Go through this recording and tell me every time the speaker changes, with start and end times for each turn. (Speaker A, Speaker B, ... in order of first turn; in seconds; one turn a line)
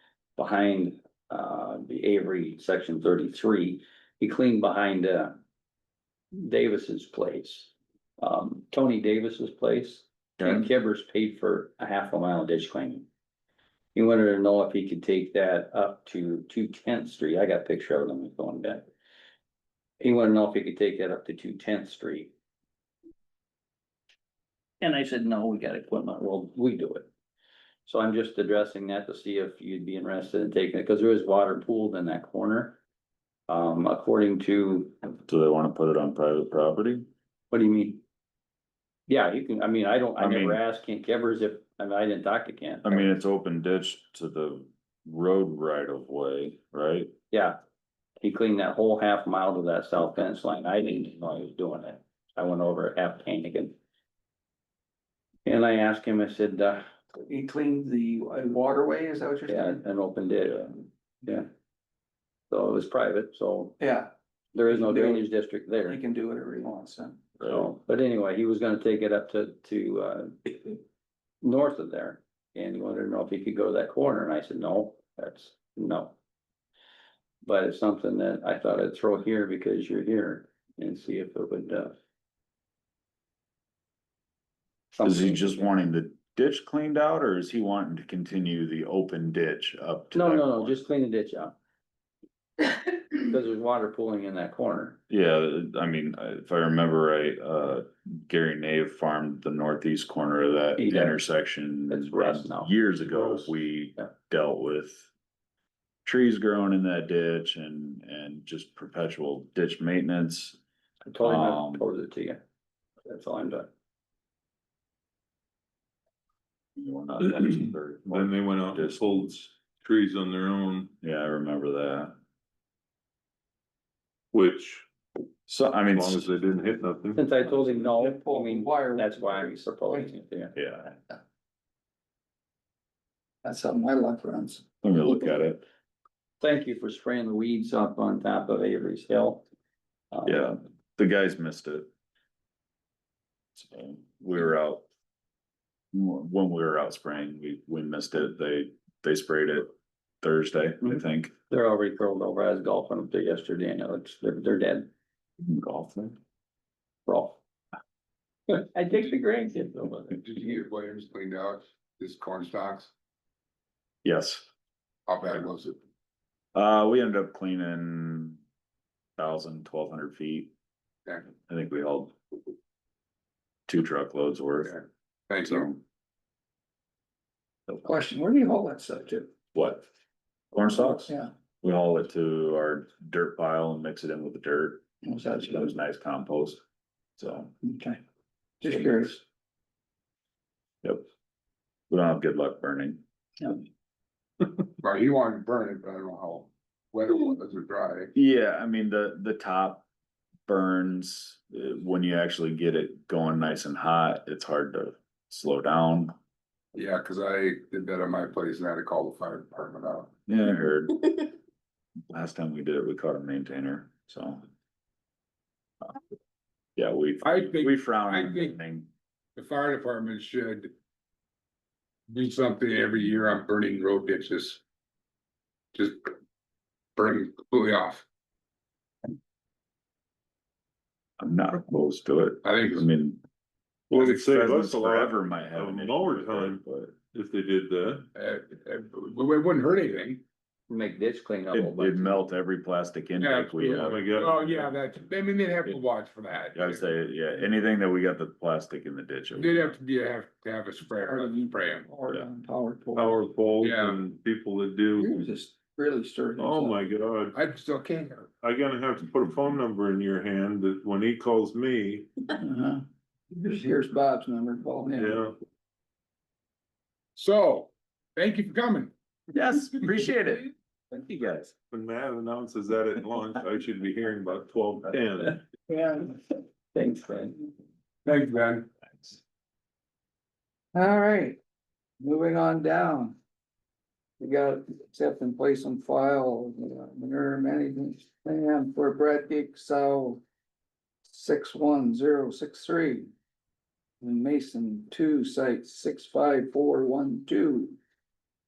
Speaker A: 0.4-5.4
Speaker A: 6.3-13.1
Speaker B: 10.4-10.7
Speaker A: 13.9-18.9
Speaker A: 20.0-22.3
Speaker A: 24.8-27.1
Speaker A: 27.9-32.8
Speaker A: 33.5-35.0
Speaker B: 35.3-37.1
Speaker A: 37.5-38.0
Speaker A: 39.1-43.1
Speaker B: 40.2-40.6
Speaker B: 42.9-47.1
Speaker A: 47.3-47.6
Speaker A: 48.2-53.8
Speaker A: 55.5-56.9
Speaker C: 57.3-59.8
Speaker A: 59.5-61.5
Speaker A: 62.5-63.8
Speaker C: 63.8-64.1
Speaker A: 64.5-66.0
Speaker C: 64.7-65.2
Speaker C: 65.8-67.2
Speaker B: 67.4-67.7
Speaker A: 67.4-70.8
Speaker A: 71.4-76.2
Speaker A: 77.5-82.0
Speaker A: 84.9-85.7
Speaker B: 85.0-90.8
Speaker A: 90.1-91.5
Speaker A: 93.1-95.0
Speaker B: 95.1-105.1
Speaker A: 100.8-101.2
Speaker A: 101.9-102.7
Speaker B: 106.0-110.6
Speaker A: 111.1-112.4
Speaker B: 111.2-111.9
Speaker A: 113.0-113.7
Speaker B: 116.8-119.3
Speaker D: 118.1-120.9
Speaker B: 121.0-122.2
Speaker D: 124.3-124.9
Speaker B: 125.5-126.3
Speaker D: 125.9-127.2
Speaker A: 127.2-130.6
Speaker C: 127.8-130.1
Speaker B: 130.6-130.9
Speaker C: 133.4-134.6
Speaker B: 134.8-135.7
Speaker A: 136.4-139.4
Speaker A: 140.1-140.4
Speaker B: 140.2-141.9
Speaker B: 143.6-144.9
Speaker B: 145.9-151.3
Speaker A: 151.5-154.9
Speaker B: 155.4-156.2
Speaker A: 157.1-157.4
Speaker A: 158.5-160.2
Speaker E: 160.2-162.9
Speaker B: 164.0-164.5
Speaker E: 165.1-165.8
Speaker B: 166.6-168.4
Speaker B: 169.2-170.5
Speaker B: 171.4-172.2
Speaker B: 173.7-174.8
Speaker E: 174.6-175.8
Speaker C: 177.8-179.3
Speaker B: 179.5-179.8
Speaker B: 180.5-186.6
Speaker C: 185.1-185.5
Speaker B: 187.2-187.5
Speaker C: 187.6-188.0
Speaker C: 188.6-189.2
Speaker B: 191.9-193.0
Speaker E: 194.8-198.1
Speaker B: 198.2-199.9
Speaker B: 200.5-206.1
Speaker E: 206.7-210.1
Speaker B: 210.3-211.3
Speaker B: 212.1-214.4
Speaker B: 216.8-218.9
Speaker E: 217.2-218.6
Speaker E: 219.4-220.7
Speaker E: 222.1-224.6
Speaker E: 225.7-226.2
Speaker E: 227.0-228.1
Speaker B: 231.2-233.2
Speaker E: 232.4-232.9
Speaker D: 233.9-236.6
Speaker B: 233.9-237.0
Speaker D: 237.1-238.1
Speaker E: 238.1-240.2
Speaker A: 240.7-242.2
Speaker B: 241.5-244.2
Speaker E: 243.2-246.9
Speaker D: 243.6-244.7
Speaker B: 246.5-249.8
Speaker E: 249.3-251.9
Speaker C: 250.9-253.2
Speaker D: 252.9-255.2
Speaker E: 253.6-254.0
Speaker C: 255.0-256.9
Speaker D: 256.4-257.4
Speaker E: 257.3-258.3
Speaker D: 258.4-262.1
Speaker C: 262.4-265.2
Speaker D: 264.9-265.4
Speaker E: 267.2-268.9
Speaker B: 269.3-271.5
Speaker D: 271.7-275.4
Speaker C: 275.7-276.2
Speaker A: 276.7-277.4
Speaker E: 278.1-278.7
Speaker C: 280.7-281.4
Speaker C: 282.0-283.2
Speaker C: 284.2-290.2
Speaker C: 291.1-293.1
Speaker C: 294.0-297.8